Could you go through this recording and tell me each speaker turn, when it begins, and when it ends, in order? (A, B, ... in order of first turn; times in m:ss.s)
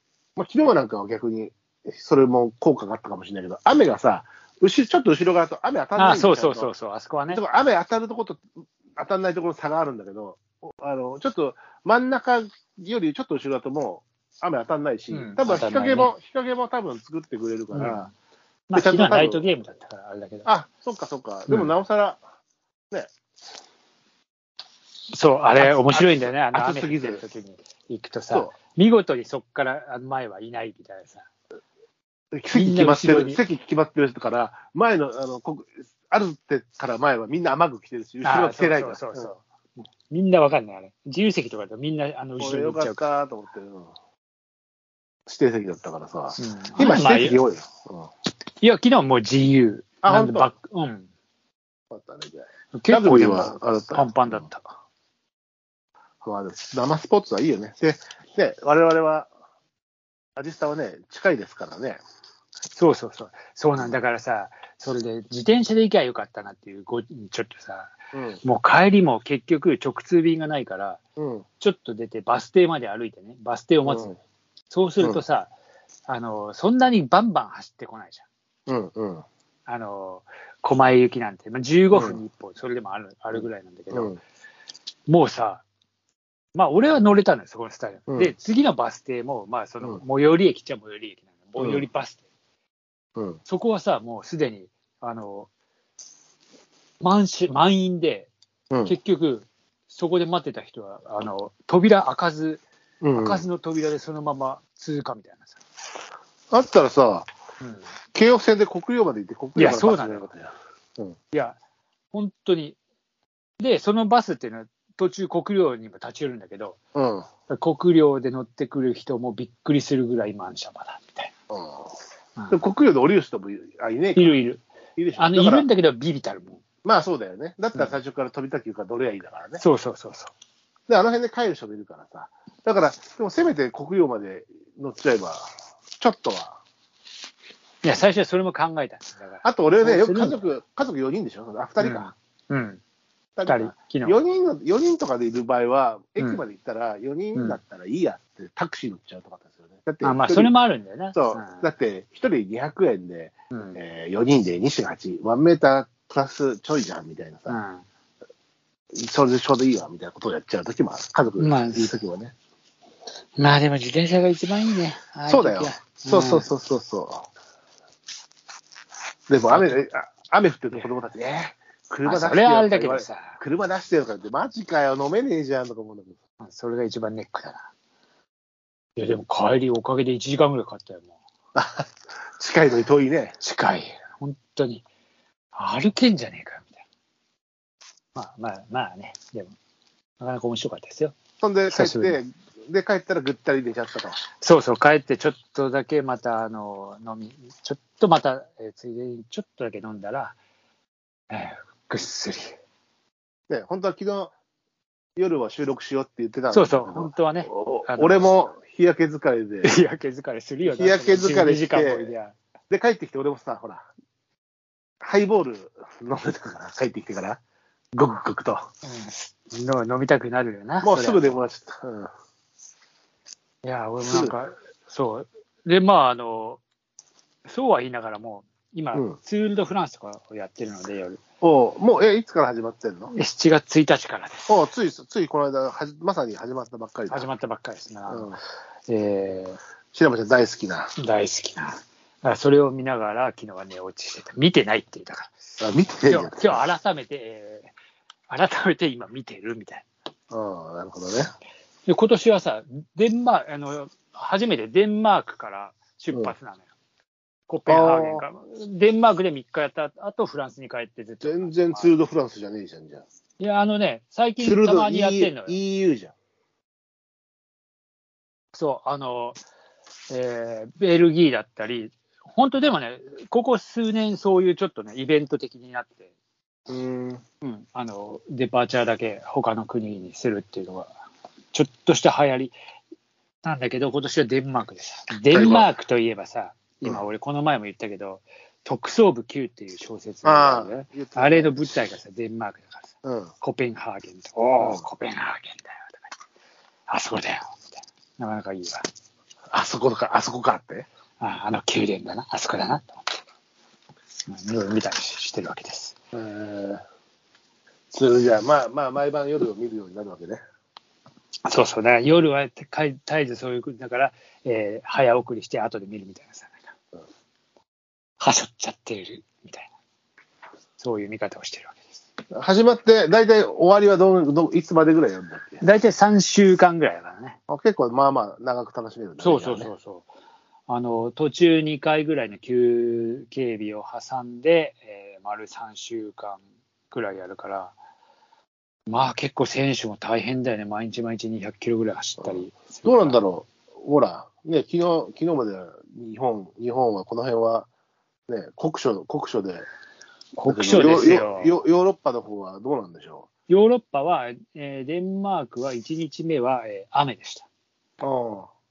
0:00.4-0:06.7 A
0:06.0-0:07.4 B
0:07.3-0:08.4 A
0:09.0-0:18.1 A
0:15.1-0:16.1 B
0:17.7-0:18.1 B
0:18.7-0:20.5 B
0:18.8-0:19.4 A
0:20.5-0:22.2 A
0:21.5-0:21.7 B
0:25.1-0:31.3 B
0:25.6-0:27.2 A
0:32.3-0:39.3 A
0:32.5-0:33.4 B
0:38.2-0:43.0 B
0:42.4-0:43.9 A
0:45.3-0:48.1 A
0:46.4-0:47.4 B
0:48.6-0:51.1 B
0:50.0-0:50.5 A
0:51.9-0:54.4 A
0:52.7-0:54.7 B
0:56.2-0:59.3 A
1:00.4-1:02.0 A
1:02.7-1:11.0 B
1:08.1-1:08.4 A
1:11.2-1:11.4 A
1:11.6-1:14.1 B
1:13.8-1:14.2 A
1:14.7-1:15.5 B
1:16.1-1:18.3 B
1:18.7-1:19.2 A
1:19.7-1:24.2 B
1:21.9-1:22.2 A
1:23.3-1:24.2 A
1:25.1-1:25.6 B
1:26.6-1:32.2 B
1:31.6-1:31.9 A
1:33.5-1:35.5 B
1:37.0-1:38.3 B
1:38.7-1:39.0 A
1:38.9-1:42.6 B
1:43.0-1:43.4 A
1:43.1-1:45.6 B
1:46.5-1:47.3 A
1:47.6-1:47.9 B
1:48.1-1:51.2 A
1:49.6-1:50.3 B
1:51.3-1:51.6 B
1:52.1-1:52.8 B
1:53.6-1:56.8 B
1:57.0-1:57.3 A
1:57.5-2:01.3 B
2:01.5-2:02.0 A
2:02.5-2:04.4 A
2:04.2-2:04.6 B
2:05.0-2:05.7 A
2:05.2-2:06.6 B
2:06.8-2:09.6 A
2:09.6-2:10.3 B
2:10.9-2:16.6 A
2:17.8-2:20.5 B
2:19.4-2:22.1 A
2:21.8-2:22.8 B
2:23.4-2:30.5 A
2:23.5-2:24.2 B
2:26.2-2:26.4 B
2:30.0-2:31.7 B
2:31.1-2:37.6 A
2:33.5-2:33.8 B
2:37.5-2:37.8 B
2:39.0-2:42.3 A
2:41.4-2:42.0 B
2:43.4-2:46.5 B
2:45.3-2:47.2 A
2:49.3-2:56.1 A
2:49.5-2:49.8 B
2:52.0-2:53.4 B
2:56.4-2:57.7 B
2:59.0-3:01.1 B
3:01.6-3:03.4 A
3:03.4-3:04.8 B
3:05.5-3:06.7 B
3:08.2-3:09.5 B
3:10.2-3:11.2 B
3:11.4-3:14.2 A
3:11.7-3:12.2 B
3:14.4-3:20.4 B
3:21.3-3:22.6 B
3:23.5-3:24.3 A
3:25.2-3:29.7 A
3:26.5-3:28.4 B
3:29.6-3:32.4 B
3:30.6-3:32.1 A
3:32.7-3:33.9 A
3:35.0-3:37.4 A
3:37.9-3:38.7 A
3:38.8-3:41.4 B
3:40.8-3:42.1 A
3:43.6-3:46.6 B
3:44.1-3:44.3 A
3:47.5-3:51.2 B
3:51.4-3:53.1 A
3:53.1-3:54.5 B
3:54.5-3:57.3 A
3:57.1-3:59.6 B
3:58.1-3:58.4 A
3:59.9-4:00.9 A
4:01.0-4:05.4 B
4:05.6-4:06.7 A
4:06.1-4:07.7 B
4:08.3-4:09.9 B
4:10.3-4:11.3 A
4:11.9-4:16.7 B
4:17.5-4:21.9 B
4:17.7-4:18.2 A
4:21.2-4:23.0 A
4:23.4-4:25.6 B
4:24.4-4:26.1 A
4:28.5-4:29.4 B
4:30.1-4:36.1 B
4:36.7-4:37.2 A
4:37.4-4:40.9 B
4:41.5-4:42.5 B
4:43.4-4:52.9 B
4:45.3-4:45.7 A
4:50.2-4:51.6 A
4:53.0-4:53.3 A
4:53.4-4:56.0 B
4:54.6-4:54.8 A
4:56.9-4:58.8 B
4:59.5-5:00.9 A
5:01.2-5:03.0 B
5:04.3-5:06.0 B
5:06.1-5:06.8 A
5:07.9-5:10.4 A
5:11.5-5:16.6 B
5:18.2-5:19.7 B
5:20.8-5:21.8 B
5:22.3-5:25.6 A
5:25.6-5:27.4 B
5:27.5-5:29.7 A
5:29.2-5:30.1 B
5:30.7-5:37.7 B
5:38.9-5:43.2 B
5:42.2-5:47.7 A
5:48.3-5:49.7 A
5:50.4-5:51.6 B
5:50.5-5:53.3 A
5:53.5-5:57.5 B
5:58.0-5:58.5 A